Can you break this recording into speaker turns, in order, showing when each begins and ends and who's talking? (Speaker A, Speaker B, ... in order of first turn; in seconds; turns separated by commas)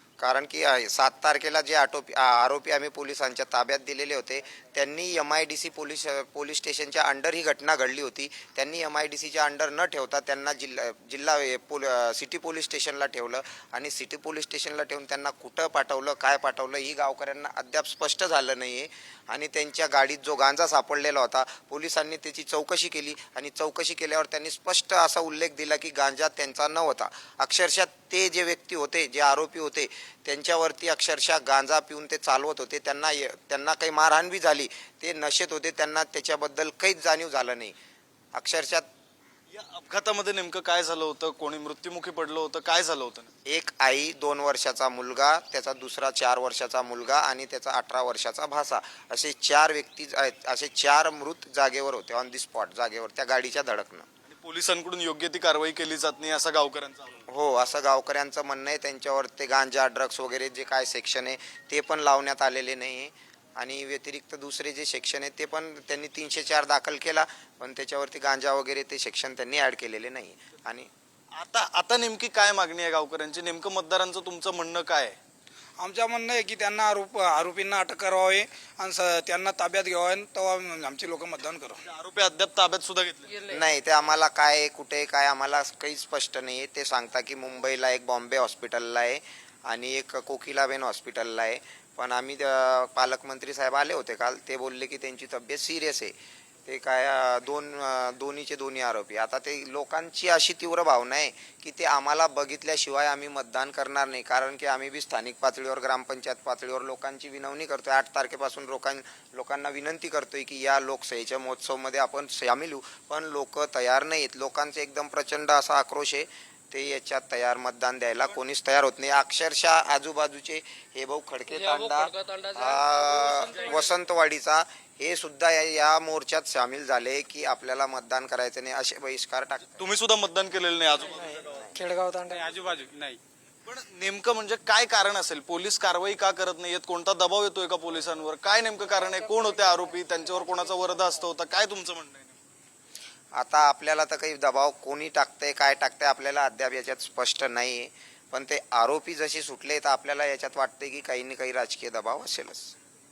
Speaker A: 0.2-37.8, Speaker A: 38.3-38.9, Speaker B: 39.5-43.3, Speaker A: 43.5-54.1, Speaker B: 54.3-57.2, Speaker A: 57.3-70.9, Speaker B: 71.3-75.2, Speaker C: 75.8-81.8, Speaker B: 81.8-83.4, Speaker C: 83.3-83.6, Speaker A: 83.5-96.1, Speaker A: 96.7-129.8, Speaker C: 123.3-123.7, Speaker B: 129.8-131.7, Speaker C: 131.7-133.2, Speaker B: 133.7-142.3, Speaker A: 143.3-152.7